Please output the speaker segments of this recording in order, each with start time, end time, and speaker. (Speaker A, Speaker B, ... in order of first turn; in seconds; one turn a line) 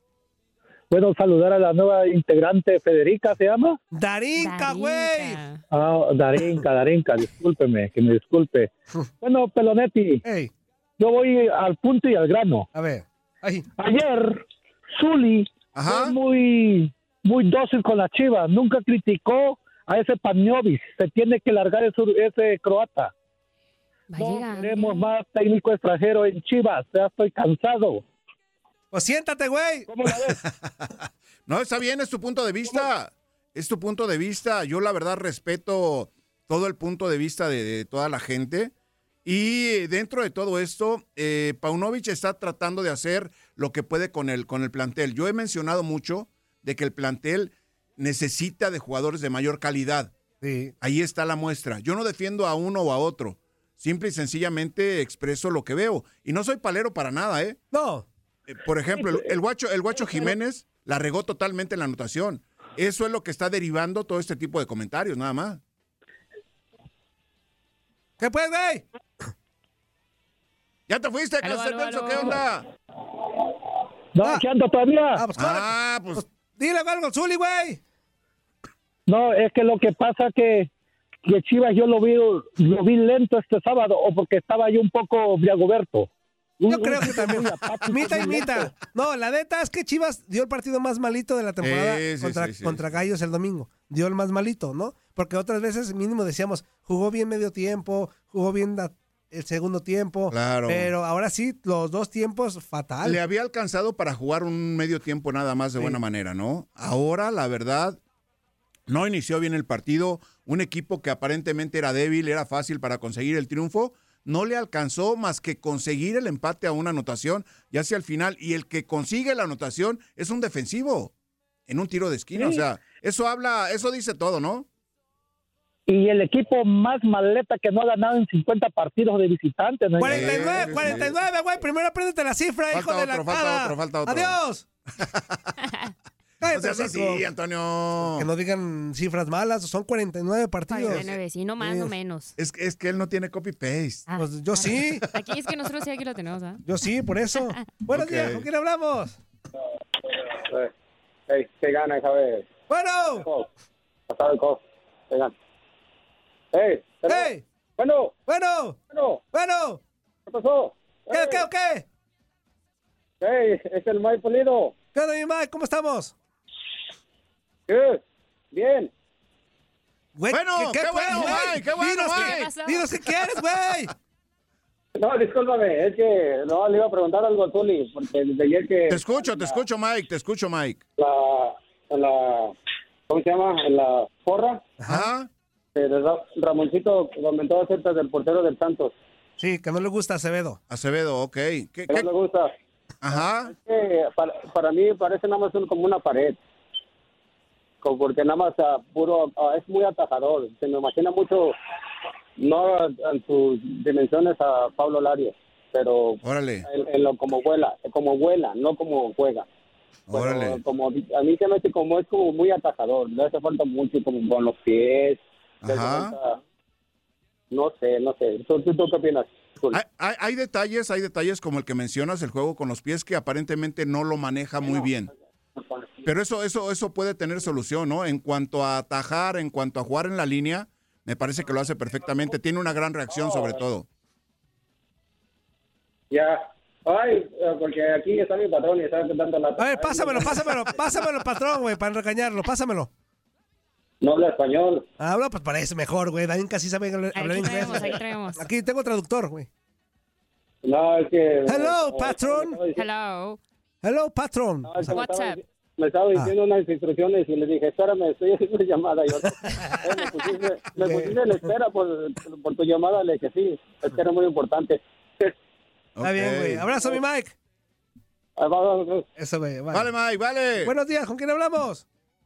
Speaker A: 0.9-3.8
Speaker B: 3.9-5.4
Speaker C: 4.4-5.6
Speaker A: 5.7-10.2
Speaker B: 10.2-10.5
Speaker A: 11.0-12.7
Speaker B: 12.7-13.7
Speaker A: 13.8-23.1
Speaker D: 15.8-16.1
Speaker C: 24.1-25.1
Speaker A: 24.2-28.0
Speaker B: 28.9-29.9
Speaker A: 29.9-30.4
Speaker D: 30.3-30.9
Speaker D: 31.5-38.7
Speaker D: 39.2-50.1
Speaker B: 50.4-50.7
Speaker D: 50.8-57.6
Speaker B: 57.7-58.1
Speaker D: 58.5-65.6
Speaker B: 68.2-68.9
Speaker D: 70.9-72.7
Speaker C: 71.4-72.4
Speaker A: 74.2-75.2
Speaker B: 75.2-77.8
Speaker D: 75.3-76.2
Speaker A: 79.1-80.7
Speaker A: 81.2-88.7
Speaker B: 86.7-103.2
Speaker D: 91.6-92.8
Speaker D: 100.3-100.9
Speaker D: 103.0-108.0
Speaker D: 108.9-121.1
Speaker D: 121.7-124.7
Speaker A: 125.9-130.8
Speaker B: 130.0-134.7
Speaker D: 130.0-131.2
Speaker D: 132.7-134.4
Speaker D: 135.0-135.4
Speaker B: 136.4-137.2
Speaker D: 136.5-138.3
Speaker B: 138.0-141.1
Speaker C: 140.7-142.3
Speaker D: 140.8-141.2
Speaker B: 141.6-141.9
Speaker D: 142.4-144.1
Speaker C: 144.1-146.6
Speaker B: 144.2-145.0
Speaker B: 146.7-149.2
Speaker D: 147.9-148.5
Speaker E: 150.1-150.7
Speaker E: 151.3-152.5
Speaker B: 152.7-153.3
Speaker E: 153.2-153.5
Speaker E: 154.1-155.3
Speaker E: 156.5-158.2
Speaker B: 157.1-157.4
Speaker B: 158.3-158.8
Speaker E: 158.9-159.2
Speaker B: 159.3-159.8
Speaker E: 160.3-161.4
Speaker B: 161.1-161.8
Speaker E: 163.2-164.8
Speaker B: 164.9-166.2
Speaker E: 167.7-168.0
Speaker E: 168.5-168.9
Speaker B: 170.2-173.9
Speaker D: 170.3-172.5
Speaker C: 171.1-172.9
Speaker E: 175.0-179.6
Speaker D: 178.9-180.8
Speaker E: 181.0-182.5
Speaker E: 183.1-184.7
Speaker B: 184.8-185.1
Speaker D: 184.9-185.3
Speaker E: 185.8-188.9
Speaker B: 189.4-190.6
Speaker D: 190.7-192.1
Speaker E: 191.9-192.5
Speaker D: 193.0-193.5
Speaker E: 193.5-196.4
Speaker E: 197.8-201.5
Speaker E: 202.4-209.5
Speaker D: 206.2-206.7
Speaker D: 210.1-210.6
Speaker E: 210.1-216.4
Speaker D: 215.6-216.2
Speaker E: 217.5-219.8
Speaker D: 219.7-225.1
Speaker E: 225.6-226.0
Speaker D: 226.1-233.9
Speaker E: 233.2-233.6
Speaker E: 236.1-240.7
Speaker B: 239.6-242.9
Speaker E: 244.0-244.9
Speaker B: 245.0-249.5
Speaker C: 247.2-248.4
Speaker E: 250.7-252.8
Speaker B: 251.5-252.6
Speaker C: 252.8-253.4
Speaker B: 253.8-254.9
Speaker E: 254.7-265.3
Speaker C: 254.9-255.4
Speaker B: 259.4-259.8
Speaker B: 260.8-261.2
Speaker D: 266.0-266.8
Speaker B: 266.0-267.4
Speaker E: 268.4-269.1
Speaker B: 269.2-269.9
Speaker D: 269.7-270.7
Speaker B: 270.6-271.9